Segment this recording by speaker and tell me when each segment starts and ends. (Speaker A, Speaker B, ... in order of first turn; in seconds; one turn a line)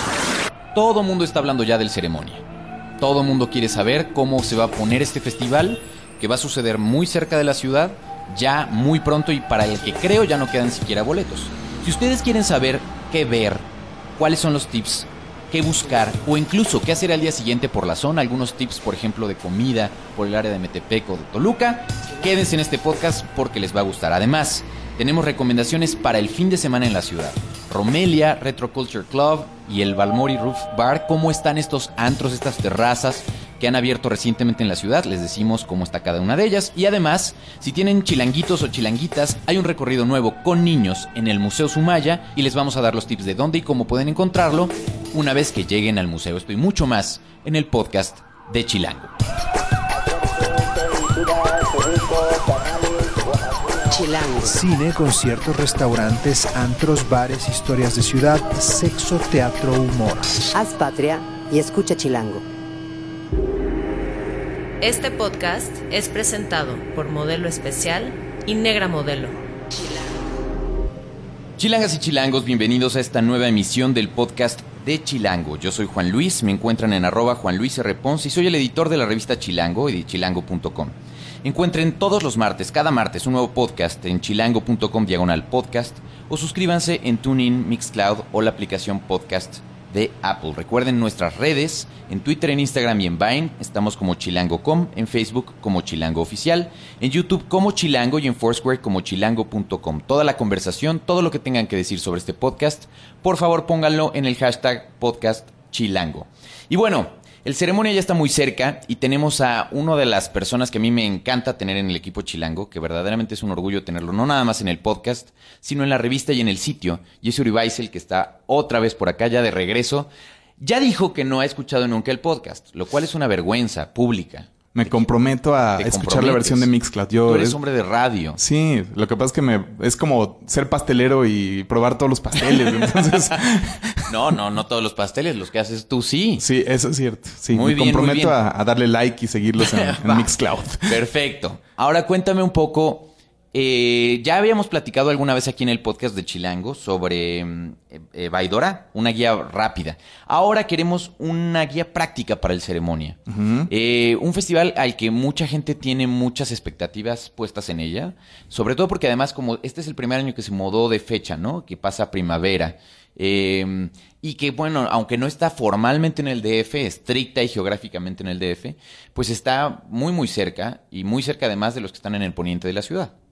Speaker A: 0.7-2.4
Speaker A: 3.0-49.1
Speaker B: 53.9-54.6
Speaker C: 54.4-60.4
Speaker B: 60.5-62.4
Speaker D: 64.8-69.4
Speaker A: 71.6-125.1
Speaker E: 124.7-127.6
Speaker A: 125.7-126.7
Speaker A: 127.2-128.4
Speaker E: 128.3-134.1
Speaker A: 132.4-133.3
Speaker A: 134.1-136.4
Speaker E: 136.4-140.9
Speaker A: 137.5-138.3
Speaker A: 139.6-173.1
Speaker E: 153.3-153.7